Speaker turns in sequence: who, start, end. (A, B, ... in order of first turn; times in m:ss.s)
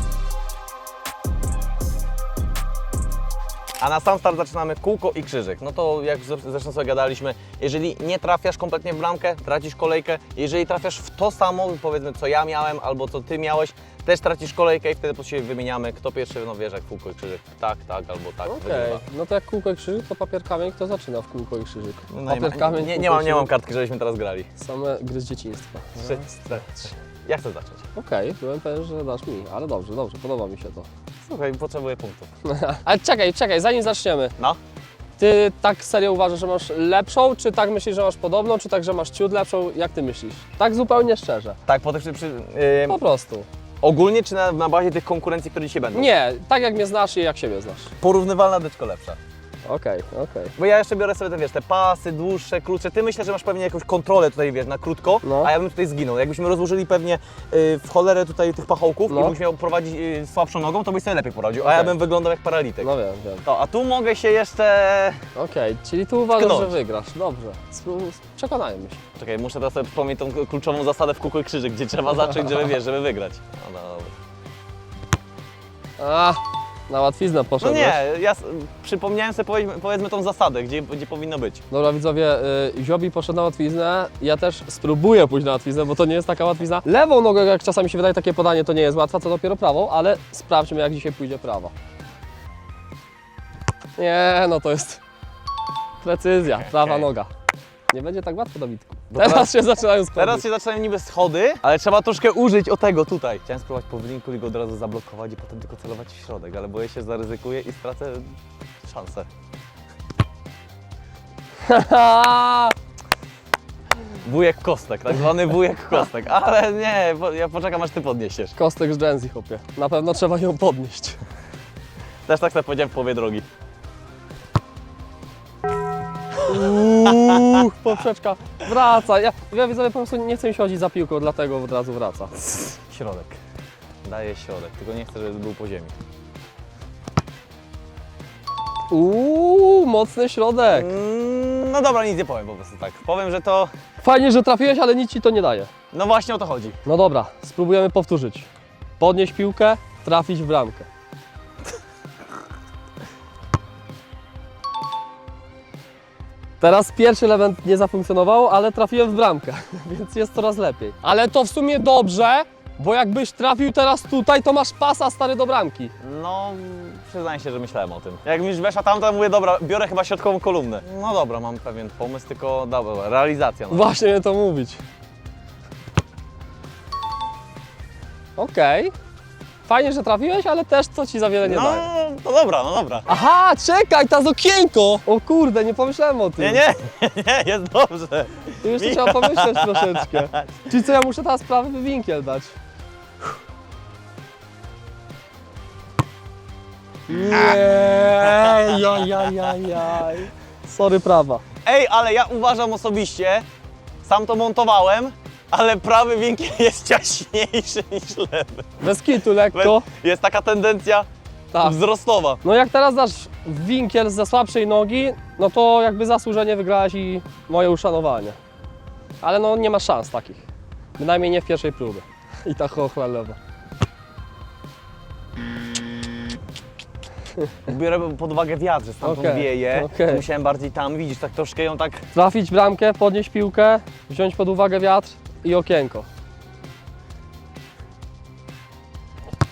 0:03.8-0:19.0 A
0:18.5-0:23.5 B
0:22.1-0:24.5 A
0:24.6-0:26.9 B
0:26.0-0:27.8 A
0:28.0-0:30.9 B
0:31.2-0:32.3 A
0:32.4-0:34.4 B
0:35.2-0:41.6 B
0:41.7-0:43.0 A
0:42.9-0:43.5 B
0:43.8-0:46.1 A
0:45.9-0:47.9 B
0:48.0-0:49.2 A
0:49.7-0:50.5 B
0:50.6-1:02.9 A
0:55.2-0:55.5 B
0:59.1-0:59.4 B
1:01.6-1:02.0 B
1:02.8-1:03.4 B
1:03.4-1:05.3 A
1:05.4-1:09.0 B
1:06.3-1:06.8 A
1:09.2-1:14.2 A
1:16.0-1:18.0 B
1:17.6-1:21.6 A
1:21.7-1:31.7 B
1:34.0-1:35.0 B
1:36.0-1:37.3 B
1:36.5-1:37.1 A
1:37.9-1:40.4 B
1:39.1-1:39.6 A
1:40.1-1:49.3 A
1:51.7-1:52.8 B
1:54.2-1:58.6 A
1:58.6-2:01.2 B
2:02.3-2:03.5 A
2:06.5-2:12.3 B
2:06.5-2:07.6 A
2:12.4-2:13.4 A
2:14.0-2:16.0 A
2:18.9-2:20.9 B
2:20.7-2:23.7 A
2:24.0-2:25.7 B
2:25.9-2:26.8 A
2:26.8-2:28.5 B
2:29.0-2:30.9 B
2:36.6-2:45.9 B
2:46.0-2:53.9 A
2:53.7-2:54.8 B
2:58.4-2:58.9 B
2:59.6-3:01.9 B
3:01.4-3:03.1 A
3:03.1-3:06.6 B
3:06.4-3:10.6 A
3:08.6-3:12.6 B
3:17.1-3:21.4 B
3:17.3-3:17.6 A
3:18.2-3:19.5 A
3:21.6-3:23.4 A
3:24.0-3:28.8 A
3:28.8-3:29.9 B
3:29.5-3:31.1 A
3:31.6-3:32.4 A
3:32.4-3:38.4 B
3:39.2-3:40.4 B
3:41.0-3:43.4 B
3:47.7-3:52.1 A
3:49.0-3:50.2 B
3:52.1-3:56.1 B